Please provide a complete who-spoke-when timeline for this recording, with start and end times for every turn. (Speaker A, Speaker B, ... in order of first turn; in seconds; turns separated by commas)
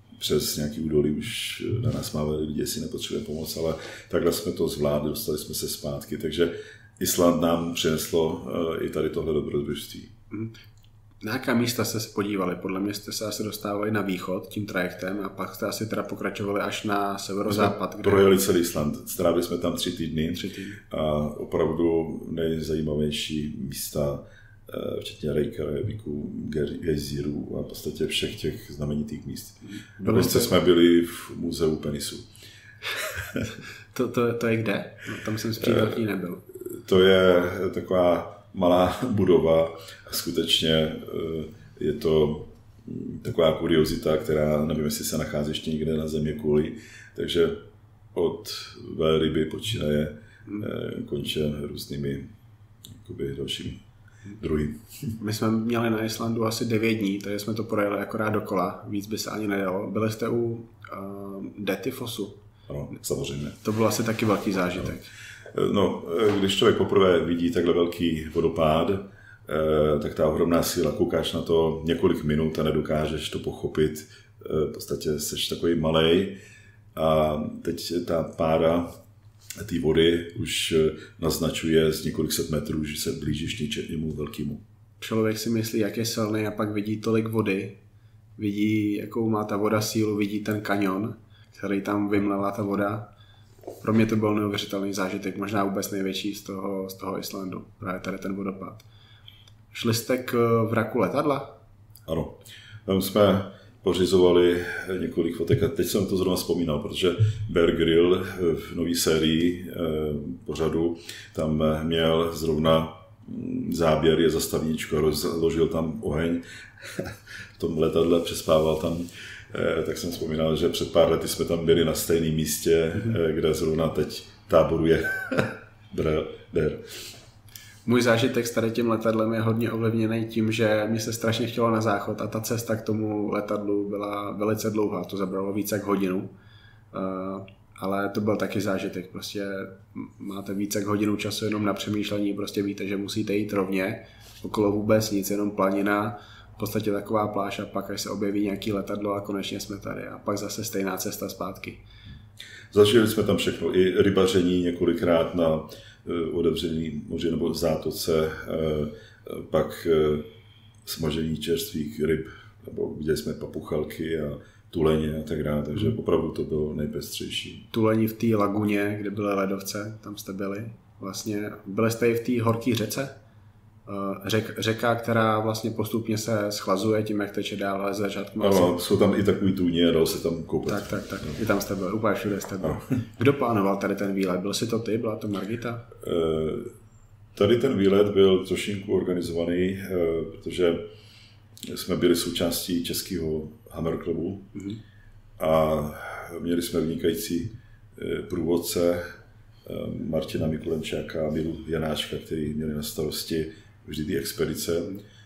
Speaker A: 0.2-10.1, Speaker B: 11.2-18.3, Speaker A: 17.5-32.3, Speaker B: 20.3-20.8, Speaker B: 29.8-30.5, Speaker B: 33.9-36.4, Speaker A: 35.6-36.0, Speaker A: 36.6-52.3, Speaker A: 53.0-53.8, Speaker A: 54.4-55.1, Speaker B: 55.2-62.4, Speaker A: 62.7-63.6, Speaker B: 63.6-65.1, Speaker A: 65.5-76.4, Speaker A: 77.0-78.9, Speaker A: 79.6-84.6, Speaker B: 85.0-87.8, Speaker B: 88.4-93.1, Speaker B: 93.8-98.8, Speaker B: 99.7-101.6, Speaker A: 102.0-126.8, Speaker B: 127.8-136.3, Speaker B: 136.9-151.8, Speaker A: 152.7-160.3, Speaker A: 160.9-167.6, Speaker B: 167.7-173.2, Speaker B: 173.9-178.7, Speaker A: 178.4-181.4, Speaker B: 180.7-185.9, Speaker A: 186.0-186.7, Speaker A: 187.3-190.8, Speaker A: 191.6-194.5, Speaker A: 195.4-199.0, Speaker A: 199.7-205.0